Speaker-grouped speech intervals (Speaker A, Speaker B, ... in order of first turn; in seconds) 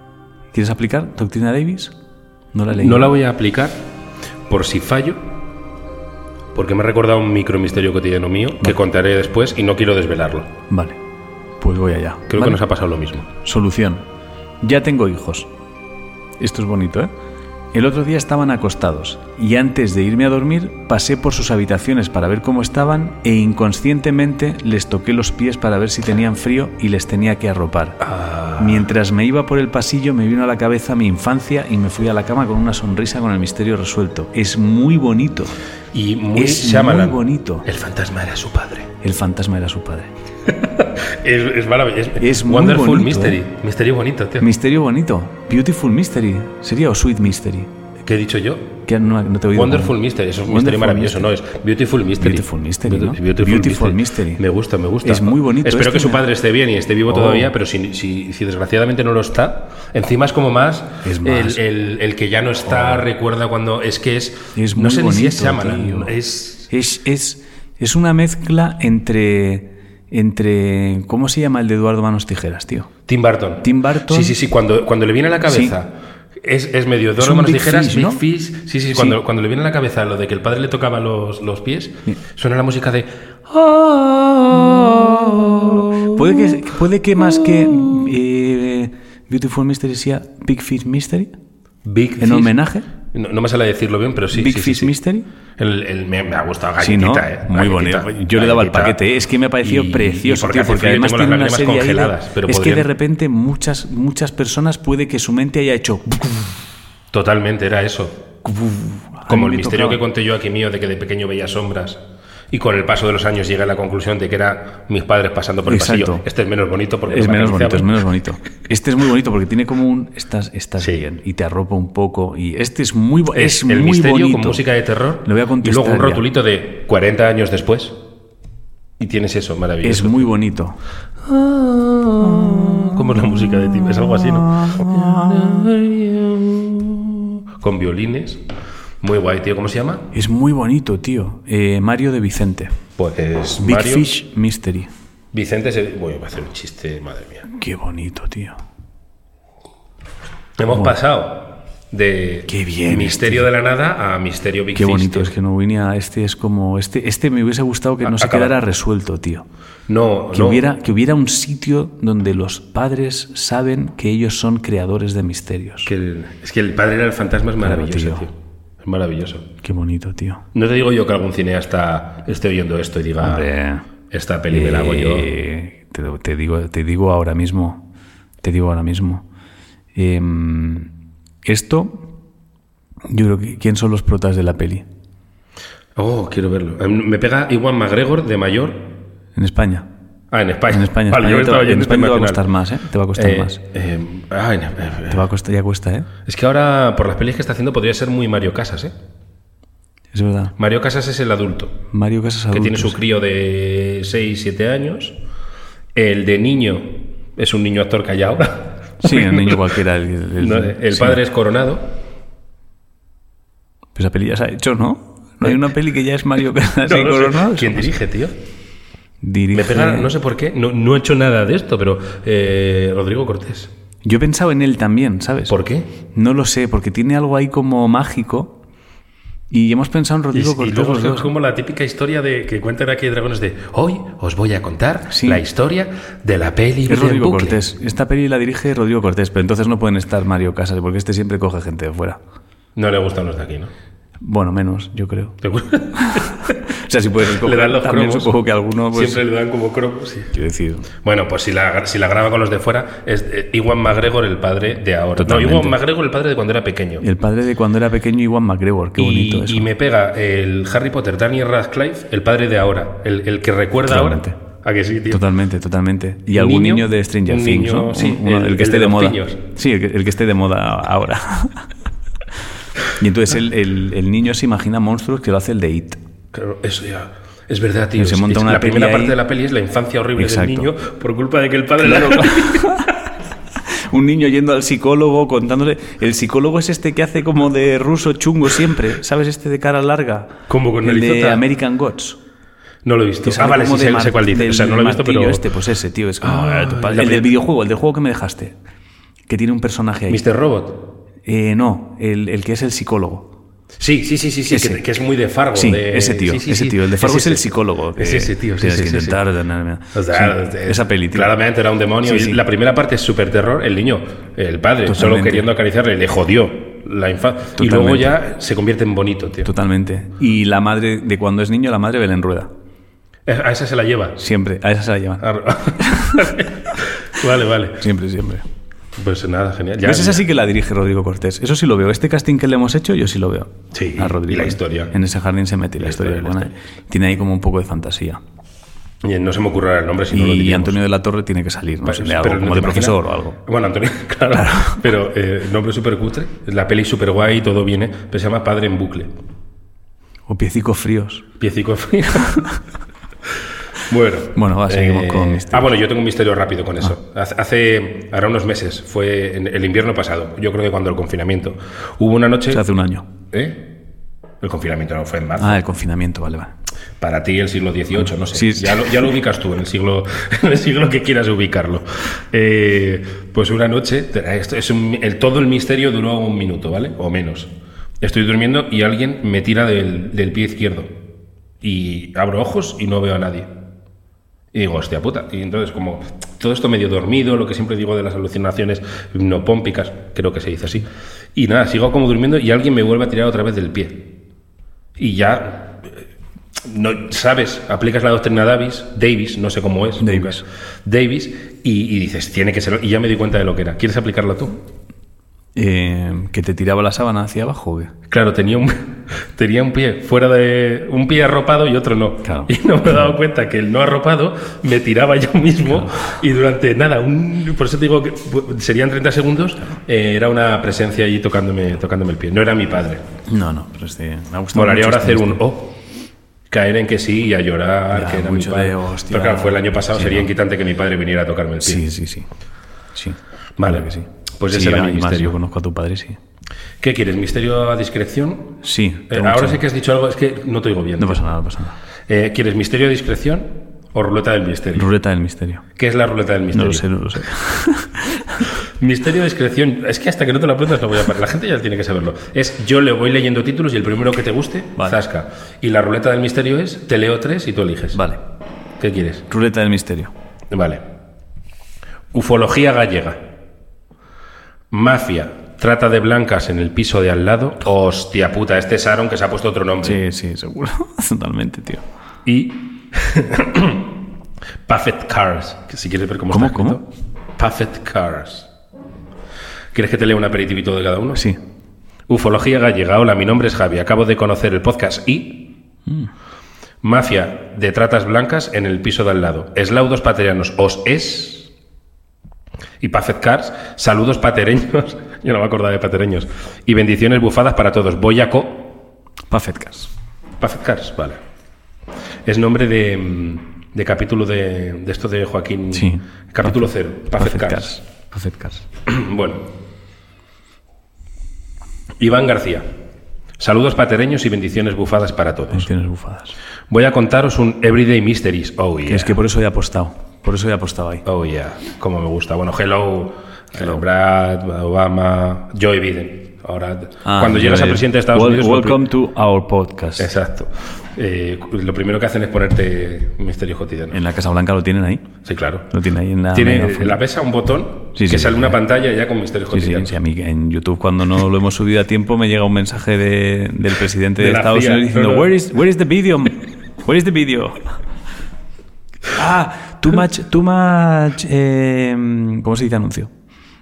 Speaker A: 0.5-1.9, 2.5-3.1, 10.7-11.0, 11.6-12.6, 13.3-14.0, 14.6-15.5, 16.4-17.1, 17.7-28.0, 28.6-35.5, 36.3-37.7, 39.0-40.1, 42.2-43.4, 44.4-47.7, 48.9-50.0, 50.5-51.3, 52.2-54.4, 55.0-56.2, 57.1-57.5, 61.0-61.6, 64.5-66.1, 66.7-72.9, 73.6-74.3, 75.5-75.7, 77.2-78.2, 86.0-91.3, 92.2-92.9, 94.3-95.2, 96.8-106.5, 108.4-110.0, 115.7-116.2, 117.1-124.6, 125.2-126.2, 129.8-130.8, 134.6-135.3, 140.1-142.7, 143.6-144.9, 147.5-148.6, 152.5-153.5, 154.7-159.4, 160.3-165.9, 167.6-168.2, 169.6-170.4, 173.2-173.8, 174.5-177.8, 178.4-179.2, 179.9-180.9, 181.4-182.1, 183.1-184.8, 189.3-189.9, 190.7-193.6, 195.1-196.1, 200.1-200.5, 201.9-203.0, 209.0-211.2, 213.9-217.9, 219.2-220.1, 224.0-225.6, 226.1-228.6, 229.5-231.3, 235.1-235.4, 236.9-242.2, 244.2-245.4, 245.9-249.2, 250.3-250.9, 255.2-255.8, 257.0-259.7, 263.9-264.4, 265.1-271.7, 272.9-276.0, 278.0-279.2, 280.2-280.7, 281.8-283.0, 283.6-292.2, 293.2-298.6, 299.3-300.2, 301.2-303.3, 304.5-304.8, 305.5-311.3, 312.0-312.4, 314.9-315.5, 317.6-318.1, 319.4-322.5, 324.2-325.2, 325.8-326.3, 327.8-328.4, 329.8-338.2, 340.1-343.4, 344.3-344.8, 350.3-351.2, 354.3-355.7, 362.5-363.1, 365.4-366.5, 368.3-368.9, 400.0-400.4, 405.5-407.9, 412.2-412.5, 415.7-416.0, 423.3-425.4, 427.9-430.3, 431.6-432.3, 432.9-436.2, 438.6-439.6, 441.0-441.8, 444.7-445.6, 446.5-448.5, 457.9-458.2, 459.3-460.1, 469.8-471.8, 476.3-476.8, 481.1-481.4, 499.3-499.9, 505.7-508.6, 515.5-516.3, 518.9-521.0, 527.0-530.1, 533.9-535.1, 535.7-537.0, 537.9-538.5, 539.5-547.7, 549.1-553.1
Speaker B: 2.8-3.8, 4.5-5.2, 6.5-10.5, 12.3-13.3, 28.0-28.9, 35.9-38.9, 40.5-44.5, 48.0-48.8, 49.5-66.7, 73.1-86.6, 87.3-88.0, 91.8-92.5, 93.1-94.9, 95.6-99.0, 99.6-102.9, 107.1-108.2, 109.3-117.9, 123.3-128.0, 129.0-130.3, 131.2-138.4, 139.0-140.1, 143.0-144.1, 145.3-147.4, 150.6-155.3, 158.0-158.6, 159.9-160.6, 165.8-169.5, 170.5-173.5, 174.1-175.3, 185.9-188.9, 190.3-192.4, 193.1-195.3, 196.2-198.9, 200.6-201.8, 202.5-205.2, 205.9-209.7, 210.4-211.9, 216.8-218.4, 219.5-223.7, 225.5-225.9, 230.3-237.6, 242.8-243.7, 245.4-246.6, 247.3-248.3, 248.9-250.3, 251.0-257.0, 259.0-265.2, 266.3-269.4, 276.3-282.9, 290.5-291.4, 292.8-295.4, 296.2-297.3, 300.1-300.8, 303.8-309.2, 309.9-319.5, 323.2-324.2, 325.2-327.8, 329.0-330.2, 333.7-334.9, 335.8-336.5, 339.0-340.8, 341.9-349.1, 351.4-352.5, 353.8-362.6, 363.3-363.7, 364.4-365.6, 367.0-380.9, 381.6-383.5, 384.5-394.1, 395.0-396.0, 396.6-404.6, 408.1-423.0, 424.5-425.8, 426.5-431.8, 433.6-435.4, 436.8-438.6, 439.1-441.2, 442.1-444.9, 445.8-446.9, 448.6-458.0, 458.8-459.2, 460.5-460.8, 462.1-463.2, 464.7-470.0, 472.2-474.0, 474.7-476.8, 477.4-478.5, 479.7-481.2, 482.1-485.5, 486.8-491.5, 492.8-498.8, 500.4-501.2, 502.2-507.7, 508.9-509.5, 512.0-512.7, 513.4-515.7, 516.7-519.1, 521.0-528.8, 530.0-534.0, 535.2-535.7, 536.3-540.0, 544.2-545.3